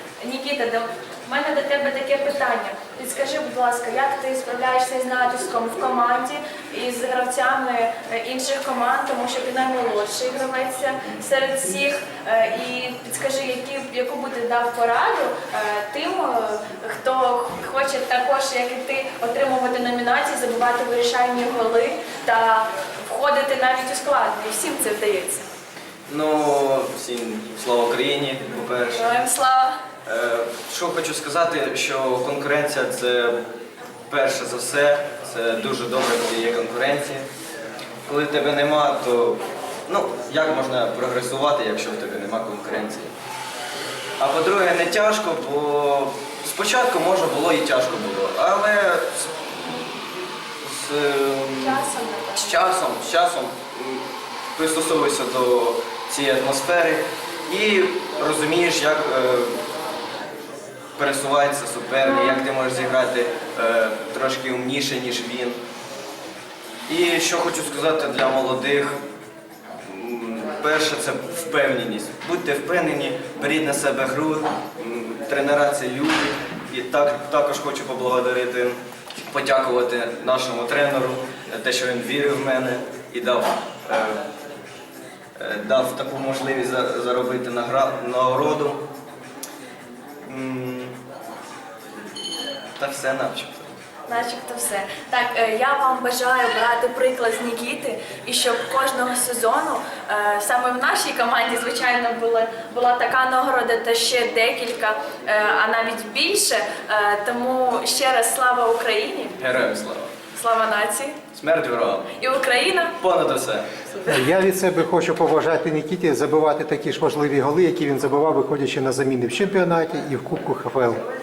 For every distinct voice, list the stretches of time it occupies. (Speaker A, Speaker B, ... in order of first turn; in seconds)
Speaker A: 0.2-25.5, 28.9-29.8, 51.6-52.6, 62.0-62.3, 94.1-109.4, 110.3-111.2, 112.2-113.0
Speaker B: 26.1-29.2, 30.1-33.4, 34.1-37.3, 38.0-43.1, 44.2-49.3, 50.6-51.8, 52.4-54.0, 54.6-59.6, 61.0-65.6, 66.9-69.0, 69.8-84.2, 85.4-88.8, 90.3-91.0, 92.8-93.7, 109.4-110.1, 111.3-112.1, 113.0-113.7
Speaker C: 114.0-121.0